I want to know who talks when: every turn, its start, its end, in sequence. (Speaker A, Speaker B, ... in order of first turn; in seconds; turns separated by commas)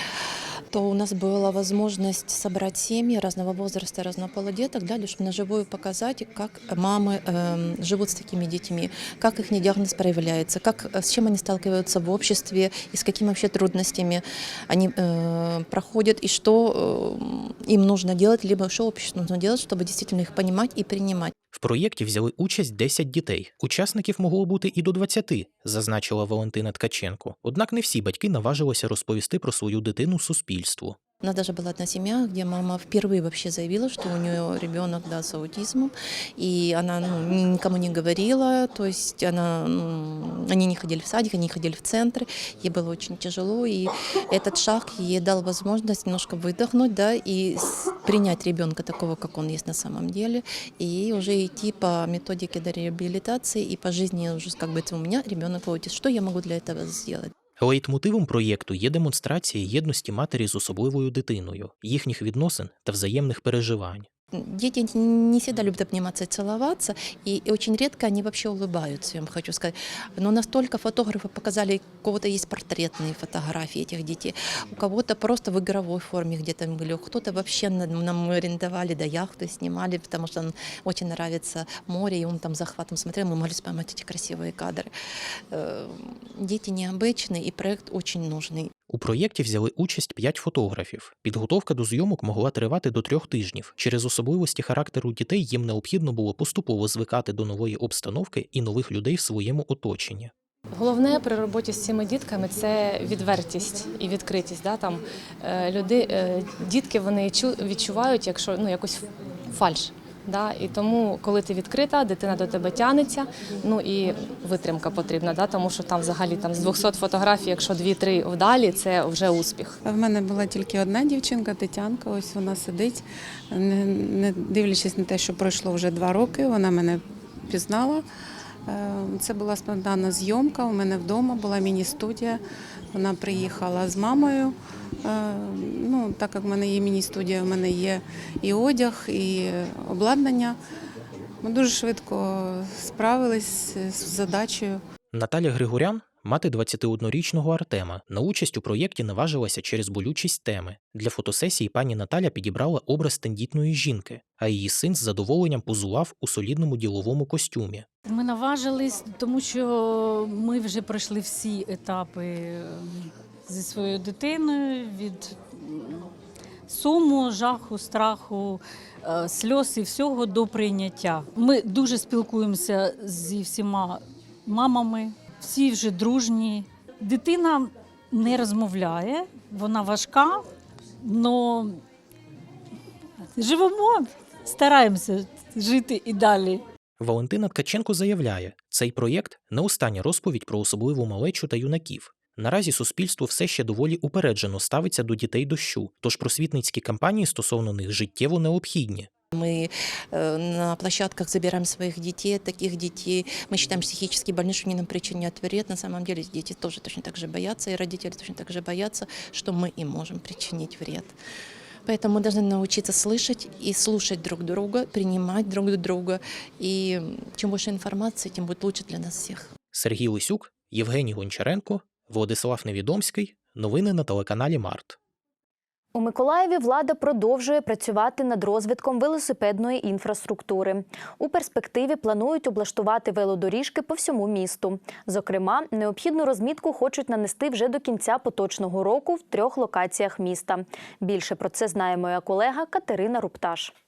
Speaker A: 0.7-21.3, Speaker B: 21.5-31.0, Speaker A: 31.2-57.3, Speaker B: 57.6-64.1, Speaker A: 64.3-84.9, Speaker A: 85.5-88.7, Speaker B: 88.9-100.3, Speaker C: 100.8-109.0, Speaker C: 109.5-119.7, Speaker D: 119.9-123.0, Speaker D: 123.5-127.0, Speaker D: 127.5-128.0, Speaker D: 128.7-132.3, Speaker D: 132.9-134.5, Speaker D: 135.1-140.5, Speaker D: 141.4-142.2, Speaker D: 142.9-144.7, Speaker B: 145.1-157.9, Speaker E: 158.1-166.1, Speaker E: 166.7-180.4, Speaker E: 181.0-181.8, Speaker E: 183.3-186.6, Speaker B: 187.0-199.1, Speaker A: 199.3-211.2, Speaker A: 211.9-219.5, Speaker B: 219.7-225.0, Speaker F: 225.9-243.7